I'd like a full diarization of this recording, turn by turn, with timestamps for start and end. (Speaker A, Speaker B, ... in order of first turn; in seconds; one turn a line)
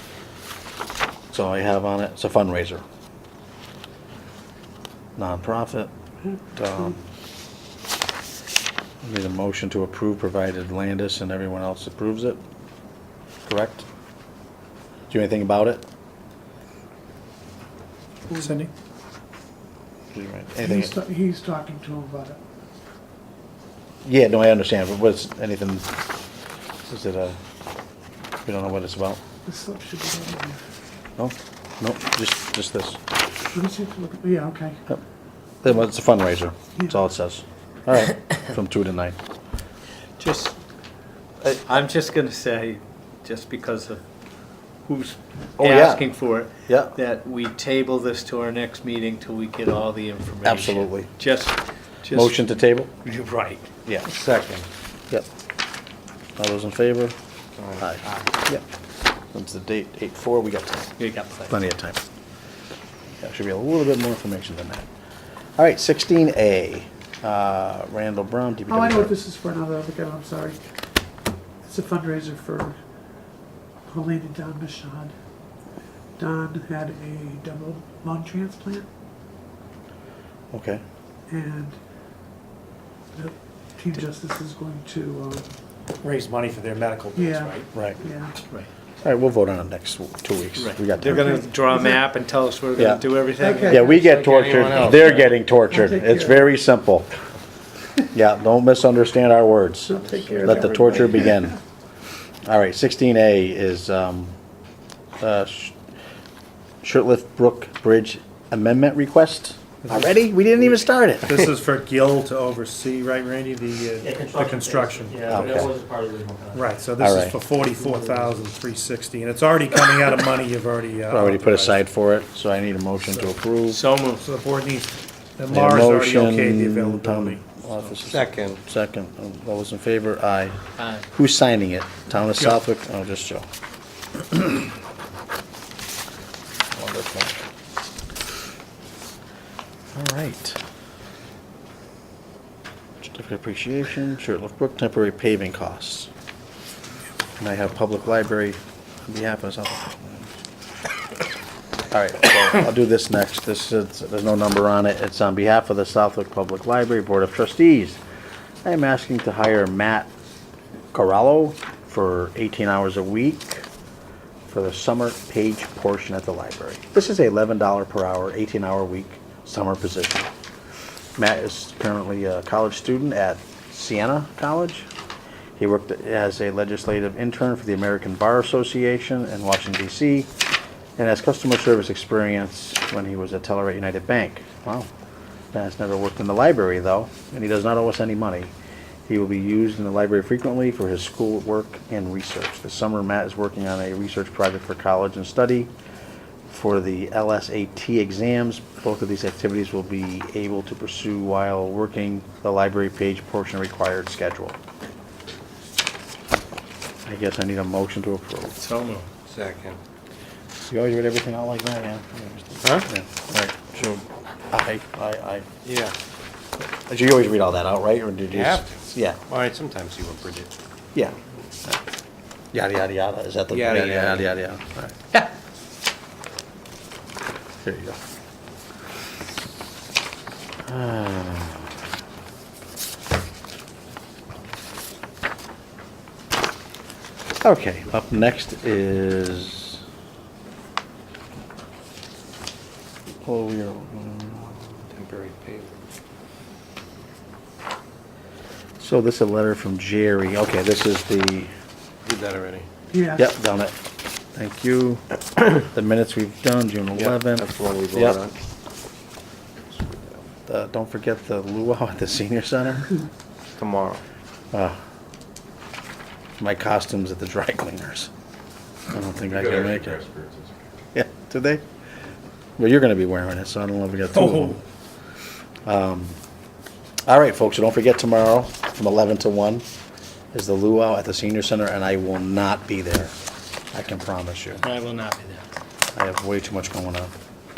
Speaker A: 1.3-2.8
Speaker A: 5.2-5.9
Speaker A: 6.5-7.1
Speaker A: 9.0-12.4
Speaker A: 13.5-13.8
Speaker A: 15.1-15.8
Speaker B: 18.3-18.7
Speaker A: 20.1-21.0
Speaker C: 20.6-22.4
Speaker A: 24.1-25.9
Speaker A: 26.8-27.4
Speaker A: 28.4-29.2
Speaker C: 29.4-30.6
Speaker A: 31.2-33.0
Speaker C: 33.5-34.8
Speaker A: 35.6-39.2
Speaker D: 40.2-40.5
Speaker D: 41.6-44.0
Speaker D: 44.8-52.4
Speaker A: 45.6-46.1
Speaker A: 46.7-47.0
Speaker A: 50.4-51.1
Speaker A: 52.1-52.9
Speaker D: 53.0-53.7
Speaker E: 54.0-54.7
Speaker A: 56.4-57.1
Speaker E: 57.5-57.8
Speaker A: 57.8-58.6
Speaker A: 59.3-60.9
Speaker D: 61.0-61.5
Speaker A: 61.5-62.0
Speaker A: 63.2-64.9
Speaker A: 65.6-69.2
Speaker C: 68.7-70.6
Speaker C: 71.7-72.8
Speaker C: 73.9-75.1
Speaker C: 76.2-78.9
Speaker A: 80.5-80.8
Speaker C: 81.3-81.8
Speaker C: 83.1-85.5
Speaker B: 86.0-87.7
Speaker C: 87.2-88.3
Speaker A: 89.0-91.2
Speaker D: 90.6-93.8
Speaker C: 91.0-92.0
Speaker A: 92.8-93.0
Speaker C: 93.4-94.0
Speaker A: 93.7-97.1
Speaker E: 93.8-95.3
Speaker C: 95.7-96.5
Speaker A: 98.1-101.6
Speaker C: 99.9-101.1
Speaker E: 100.1-101.3
Speaker A: 102.5-104.3
Speaker A: 105.2-105.8
Speaker A: 106.8-111.4
Speaker B: 109.9-110.1
Speaker B: 111.2-115.7
Speaker D: 114.8-116.3
Speaker A: 115.3-115.7
Speaker B: 116.5-121.8
Speaker A: 117.0-117.4
Speaker A: 121.1-123.8
Speaker D: 123.7-124.2
Speaker B: 124.2-127.4
Speaker A: 125.5-130.6
Speaker E: 128.1-128.6
Speaker D: 130.8-131.1
Speaker A: 131.1-133.5
Speaker A: 134.2-134.7
Speaker A: 136.7-137.4
Speaker A: 139.9-140.6
Speaker A: 143.0-146.1
Speaker A: 147.4-150.3
Speaker A: 151.9-158.0
Speaker A: 158.7-160.1
Speaker A: 160.9-163.7
Speaker A: 164.5-170.3
Speaker A: 171.2-174.9
Speaker A: 175.6-180.3
Speaker A: 181.0-184.9
Speaker A: 185.5-188.5
Speaker A: 189.1-195.7
Speaker A: 196.5-204.6
Speaker A: 207.1-208.6
Speaker D: 208.5-209.1
Speaker E: 209.2-209.8
Speaker A: 210.7-215.5
Speaker E: 212.6-212.9
Speaker E: 215.6-215.9
Speaker A: 216.6-219.2
Speaker E: 218.3-220.5
Speaker A: 220.9-221.8
Speaker A: 222.5-225.2
Speaker E: 223.5-224.3
Speaker A: 227.6-228.0
Speaker A: 230.7-231.8
Speaker A: 237.4-239.8
Speaker A: 243.2-244.8
Speaker E: 244.9-245.8
Speaker A: 248.8-251.5
Speaker E: 252.0-252.7
Speaker C: 252.9-253.2
Speaker A: 253.2-253.8
Speaker A: 254.3-258.2
Speaker E: 256.9-258.3
Speaker E: 259.7-260.2
Speaker A: 260.5-262.9
Speaker E: 263.6-264.0
Speaker A: 264.5-264.8
Speaker A: 266.4-268.1
Speaker A: 268.9-270.1
Speaker A: 270.9-271.6
Speaker A: 272.6-274.6
Speaker A: 275.6-276.1
Speaker A: 277.1-279.6
Speaker A: 280.3-283.1
Speaker A: 283.7-284.6
Speaker D: 284.6-285.4
Speaker A: 285.9-287.1